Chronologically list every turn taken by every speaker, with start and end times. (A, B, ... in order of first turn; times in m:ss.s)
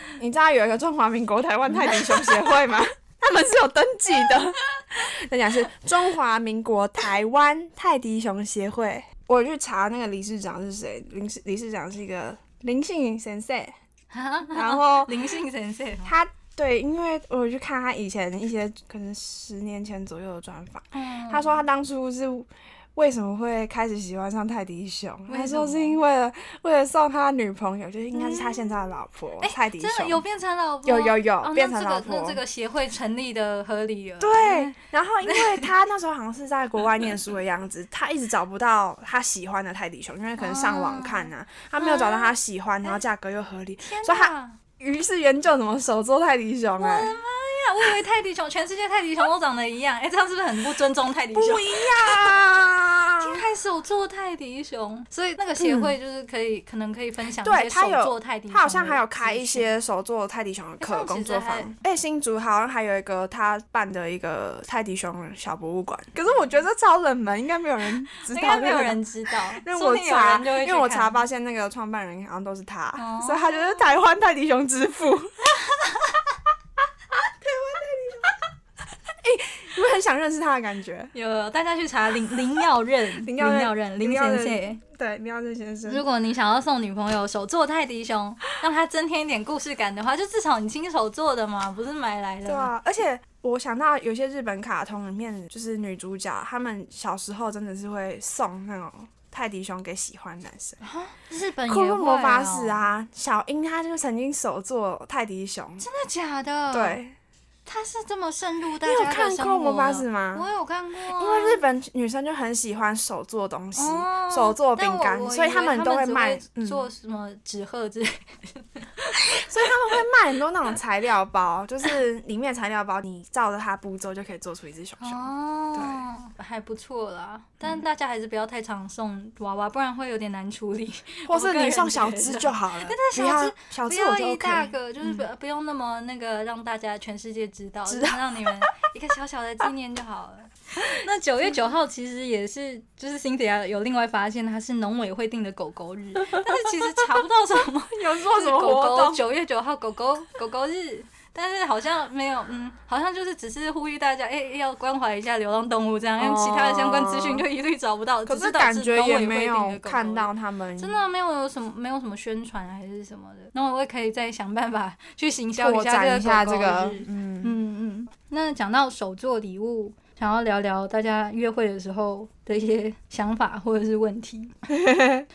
0:00.2-0:13.8 A
0:01.9-0:02.2 B
0:14.1-0:16.2 B
0:14.5-0:15.3 A
0:16.0-0:30.2 A
0:20.9-0:21.6 B
0:25.3-0:26.0 B
0:28.1-0:28.8 B
0:29.4-0:35.7 B
0:30.8-0:32.4 A
0:34.2-0:47.2 A
0:40.4-0:42.3 B
0:43.8-0:44.6 B
0:46.8-0:52.4 B
0:51.3-0:53.5 A
0:53.2-0:59.7 B
0:55.6-0:56.0 A
0:57.4-1:15.5 A
1:00.8-1:01.7 B
1:08.2-1:11.2 B
1:13.0-1:13.9 B
1:15.6-1:16.2 B
1:17.4-1:18.3 A
1:19.2-1:21.1 A
1:21.1-1:24.8 B
1:23.2-1:26.0 A
1:25.9-1:32.7 B
1:32.5-1:40.8 A
1:40.8-1:42.8 B
1:41.7-1:45.9 A
1:45.8-1:47.0 B
1:46.7-1:47.2 A
1:47.7-1:51.6 B
1:48.8-1:50.5 A
1:51.1-1:56.9 A
1:53.8-1:59.5 B
1:59.3-2:06.0 A
2:05.0-2:54.5 B
2:11.3-2:15.3 A
2:17.9-2:18.5 A
2:26.3-2:27.0 A
2:27.9-2:29.2 A
2:36.2-2:37.5 A
2:38.3-2:41.0 A
2:45.6-2:47.6 A
2:54.7-2:55.3 A